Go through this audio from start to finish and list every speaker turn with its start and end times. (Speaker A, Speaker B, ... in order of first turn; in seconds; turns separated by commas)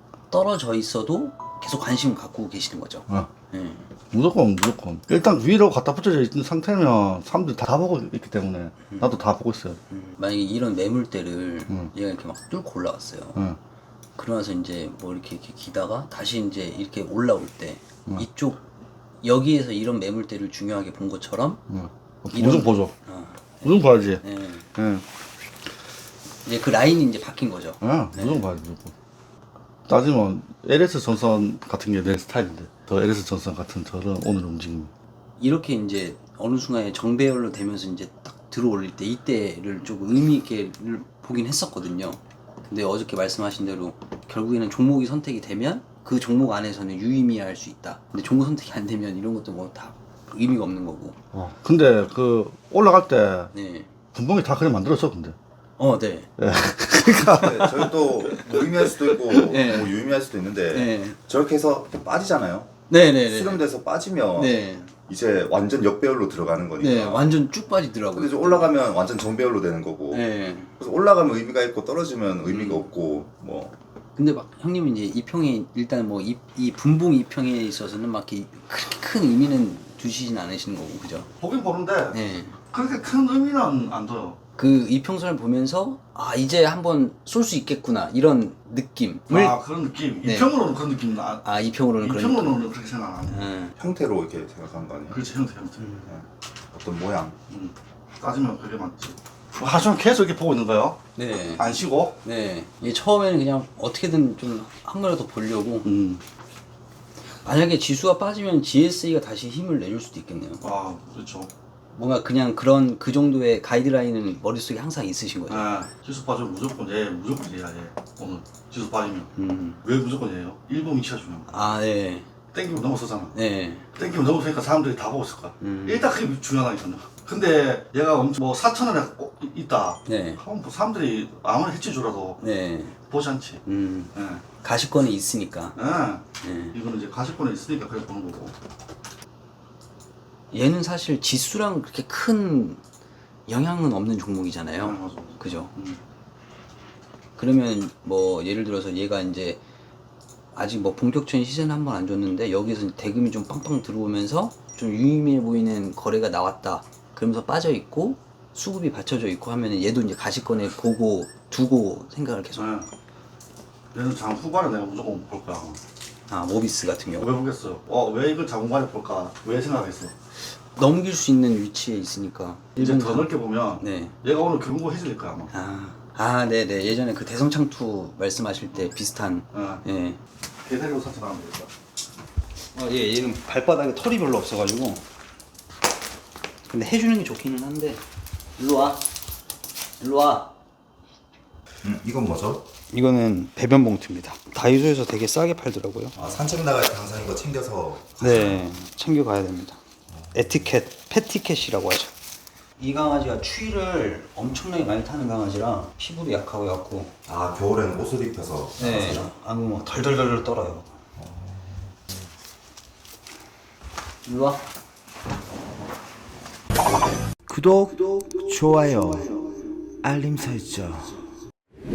Speaker A: 0.3-3.9, Speaker B: 4.1-9.8, Speaker A: 8.9-9.1, Speaker A: 9.9-13.4, Speaker A: 14.2-18.6, Speaker A: 19.2-21.6, Speaker B: 21.7-22.9, Speaker A: 22.3-24.7, Speaker B: 23.6-24.2, Speaker B: 24.7-25.0, Speaker A: 26.4-28.5, Speaker B: 27.8-28.9, Speaker B: 29.9-34.9, Speaker A: 35.4-51.2, Speaker B: 51.3-53.5, Speaker A: 53.5-53.9, Speaker B: 54.1-55.4, Speaker A: 55.8-56.3, Speaker B: 56.4-57.9, Speaker C: 57.3-67.3, Speaker A: 57.6-59.9, Speaker A: 60.7-61.2, Speaker A: 62.9-63.6, Speaker A: 64.3-64.9, Speaker A: 66.8-68.7, Speaker C: 68.1-70.2, Speaker A: 70.1-70.7, Speaker C: 70.8-73.7, Speaker A: 72.5-72.8, Speaker A: 74.2-81.3, Speaker B: 81.4-82.2, Speaker A: 82.1-82.6, Speaker B: 82.7-84.4, Speaker A: 84.6-89.6, Speaker B: 89.3-91.5, Speaker A: 90.2-90.5, Speaker A: 91.4-92.6, Speaker B: 92.0-93.5, Speaker A: 93.3-93.7, Speaker C: 93.8-95.2, Speaker B: 95.1-95.9, Speaker A: 95.8-96.1, Speaker C: 96.1-97.4, Speaker B: 97.5-101.0, Speaker A: 101.2-101.7, Speaker B: 101.5-102.2, Speaker A: 102.2-105.9, Speaker B: 105.8-106.2, Speaker A: 107.4-110.6, Speaker B: 110.6-111.5, Speaker A: 111.9-115.7, Speaker B: 115.5-119.3, Speaker A: 119.4-119.8, Speaker B: 119.8-121.6, Speaker A: 121.5-122.3, Speaker B: 122.5-123.3, Speaker A: 123.3-123.9, Speaker B: 123.9-132.4, Speaker A: 125.6-126.1, Speaker A: 130.1-130.4, Speaker A: 132.4-133.0, Speaker B: 133.1-133.6, Speaker A: 133.7-135.8, Speaker B: 134.1-134.4, Speaker B: 135.8-138.6, Speaker A: 136.4-136.8, Speaker A: 140.5-142.8, Speaker A: 143.5-145.7, Speaker B: 144.8-146.0, Speaker A: 147.4-149.6, Speaker A: 150.5-162.7, Speaker B: 162.6-162.9, Speaker B: 163.9-165.8, Speaker A: 166.3-167.3, Speaker B: 167.2-170.1, Speaker A: 170.8-174.1, Speaker B: 172.8-175.5, Speaker A: 175.5-180.2, Speaker B: 179.5-179.8, Speaker B: 180.6-181.7, Speaker A: 182.7-185.0, Speaker A: 186.7-188.0, Speaker A: 188.6-189.1, Speaker A: 190.0-190.5, Speaker C: 191.8-192.7, Speaker A: 192.9-196.2, Speaker C: 196.1-198.6, Speaker A: 198.2-199.8, Speaker C: 200.1-200.7, Speaker A: 200.3-202.1, Speaker A: 202.8-207.1, Speaker C: 207.2-209.3, Speaker A: 208.8-210.9, Speaker C: 211.2-212.2, Speaker A: 214.2-214.6, Speaker C: 217.5-221.2